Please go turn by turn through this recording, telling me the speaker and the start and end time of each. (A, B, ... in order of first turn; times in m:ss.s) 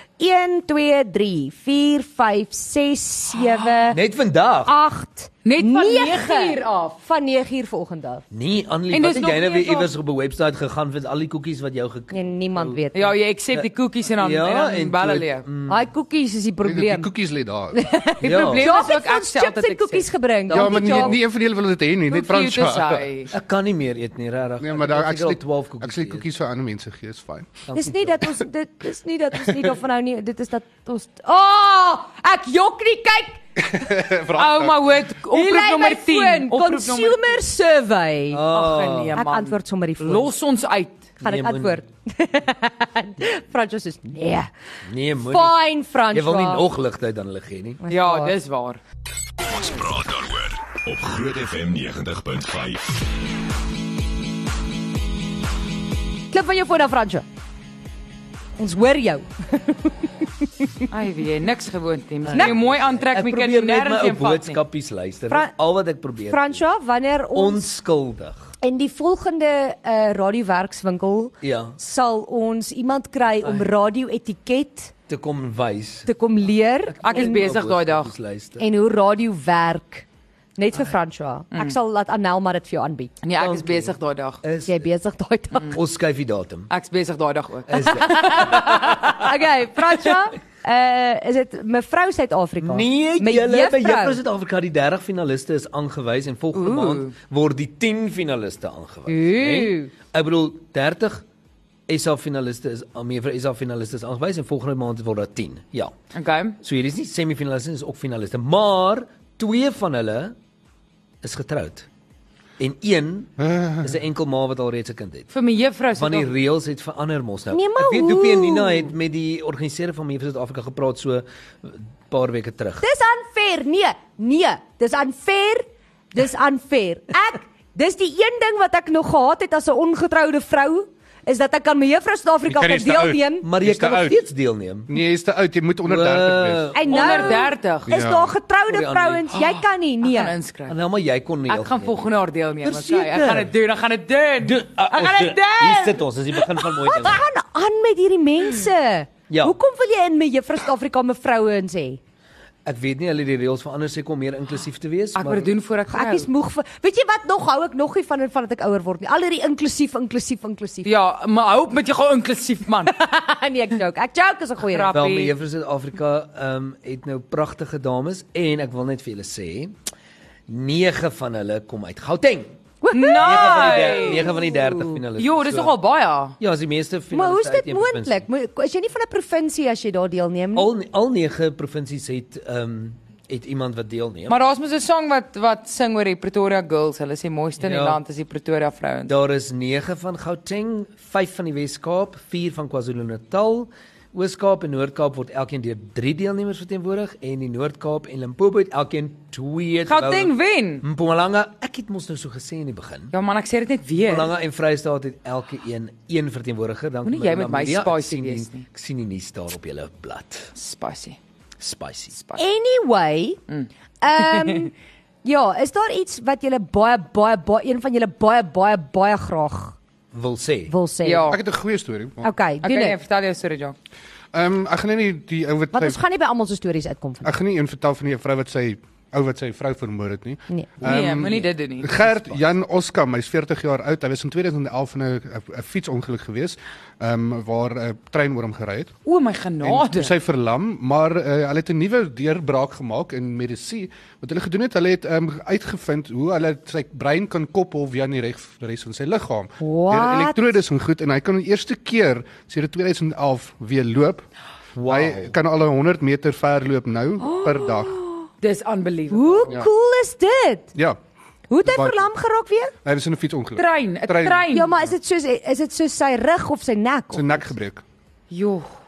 0:00.2-0:04.0 A
0:03.9-0:04.7 B
0:04.7-0:08.2 A
0:05.4-0:07.0 C
0:08.3-0:12.8 B
0:08.9-0:09.9 C
0:12.1-0:13.1 A
0:12.9-0:15.5 C
0:13.5-0:15.8 B
0:15.7-0:17.1 A
0:16.6-0:17.8 D
0:17.7-0:21.2 A
0:18.2-0:20.1 C
0:18.2-0:18.7 B
0:20.5-0:23.1 D
0:20.6-0:21.0 B
0:22.1-0:23.3 C
0:23.3-0:26.2 B
0:24.6-0:27.6 D
0:27.7-0:28.3 B
0:27.7-0:33.4 A
0:33.6-0:34.9 D
0:34.4-0:37.4 C
0:35.3-0:38.4 A
0:38.3-0:39.2 B
0:38.5-0:41.1 C
0:39.1-0:40.3 A
0:41.2-0:41.8 B
0:41.2-0:44.5 A
0:44.9-0:47.8 B
0:45.2-0:46.6 A
0:47.8-0:48.3 A
0:47.9-0:48.8 C
0:49.4-0:53.0 E
0:56.3-0:57.2 A
0:58.6-0:59.9 A
1:00.9-1:04.6 C
1:02.3-1:06.6 B
1:05.3-1:05.5 A
1:06.3-1:07.7 A
1:07.3-1:08.5 B
1:08.6-1:14.9 A
1:11.4-1:11.8 B
1:13.4-1:13.7 B
1:15.1-1:16.1 B
1:16.1-1:17.4 A
1:16.9-1:18.6 B
1:17.0-1:18.1 C
1:18.6-1:20.0 A
1:20.6-1:23.1 A
1:23.2-1:24.4 C
1:23.3-1:24.9 B
1:24.7-1:25.8 A
1:25.6-1:26.7 B
1:26.7-1:29.0 C
1:27.7-1:29.3 B
1:28.1-1:34.2 A
1:32.6-1:41.2 B
1:36.5-1:37.1 C
1:39.1-1:39.9 A
1:41.9-1:45.9 B
1:46.1-1:46.6 C
1:46.6-1:50.4 B
1:51.2-1:51.9 B
1:52.6-1:55.3 B
1:53.4-1:53.9 D
1:55.3-1:56.3 C
1:56.0-2:02.8 B
1:57.5-1:58.9 A
2:02.8-2:13.4 A
2:12.5-2:14.2 D
2:13.4-2:14.9 B
2:14.9-2:16.7 D
2:15.8-2:17.4 B
2:16.8-2:20.4 A
2:16.9-2:17.9 C
2:17.9-2:18.3 D
2:18.7-2:19.3 B
2:20.0-2:20.8 C
2:20.7-2:22.1 B
2:21.5-2:26.7 C
2:22.6-2:23.5 B
2:24.4-2:27.2 B
2:26.8-2:32.0 A
2:29.3-2:29.6 B
2:32.6-2:35.5 B
2:35.2-2:36.3 C
2:35.9-2:40.9 A
2:40.8-2:42.9 C
2:42.9-2:44.9 A
2:44.6-2:45.3 C
2:44.9-2:49.7 B
2:50.5-2:52.6 B
2:52.8-2:55.0 A
2:52.9-2:54.4 C
2:53.2-2:55.7 B
2:55.2-2:56.4 C
2:56.4-2:58.2 B
2:57.1-3:00.7 A
3:00.6-3:04.4 B
3:04.3-3:09.2 C
3:07.6-3:08.0 B
3:09.1-3:23.1 B
3:19.9-3:20.8 C
3:23.1-3:24.3 C
3:24.0-3:30.5 B
3:27.0-3:28.6 C
3:30.6-3:31.2 C
3:31.6-3:32.1 B
3:32.1-3:32.4 C
3:32.4-3:33.4 A
3:34.0-3:34.7 A
3:35.2-3:39.8 A
3:40.1-3:40.7 B
3:40.7-3:41.4 A
3:41.0-3:41.4 C
3:41.3-3:42.3 D
3:42.2-3:43.0 A
3:42.6-3:43.8 C
3:44.3-3:46.0 D
3:45.7-3:47.4 A
3:47.2-3:58.9 D
3:50.5-3:50.7 A
3:50.8-3:52.1 C
3:59.1-4:00.2 C
3:59.6-4:14.3 D
4:09.6-4:10.6 A
4:14.8-4:15.4 B
4:14.9-4:18.0 D
4:17.2-4:18.3 A
4:18.4-4:19.5 C
4:19.1-4:20.7 A
4:21.5-4:22.7 A
4:21.6-4:22.1 D
4:22.8-4:24.5 D
4:23.6-4:24.8 C
4:24.5-4:27.5 A
4:27.1-4:27.8 D
4:28.3-4:28.7 C